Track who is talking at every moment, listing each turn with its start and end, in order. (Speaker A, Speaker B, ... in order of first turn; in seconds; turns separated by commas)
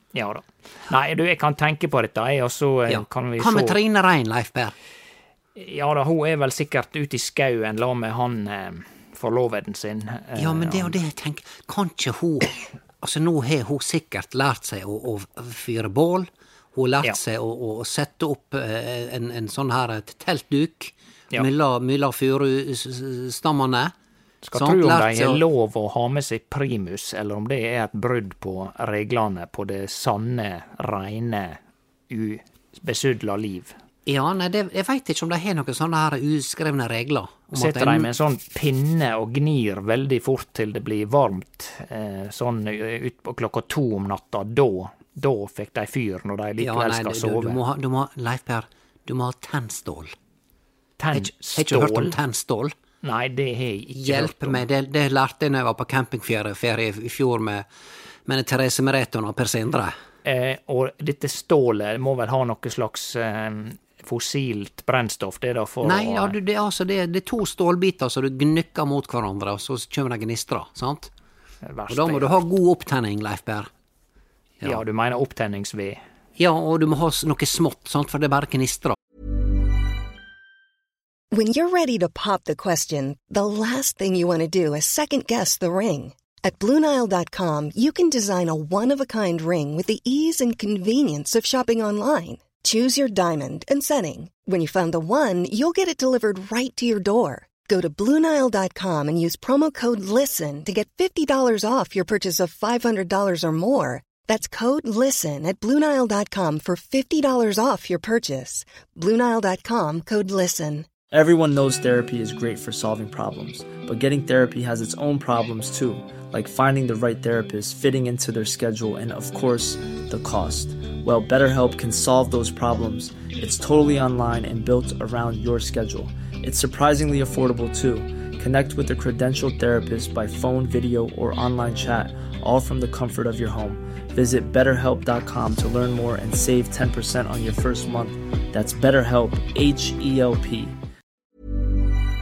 Speaker A: 0.1-3.8, Speaker B: 2.9-4.8, Speaker A: 5.5-11.0, Speaker B: 10.4-23.9, Speaker A: 24.4-33.8, Speaker B: 24.5-25.4, Speaker B: 34.1-38.1, Speaker A: 37.5-47.6, Speaker B: 46.6-50.1, Speaker A: 51.0-52.2, Speaker B: 51.1-52.8, Speaker A: 53.0-54.6, Speaker B: 54.0-57.6, Speaker B: 58.3-59.9, Speaker A: 60.2-66.4, Speaker B: 65.8-71.1, Speaker A: 71.6-72.3, Speaker B: 71.9-73.7, Speaker A: 74.6-76.0, Speaker B: 76.4-79.0, Speaker C: 81.3-111.0, Speaker D: 111.1-140.7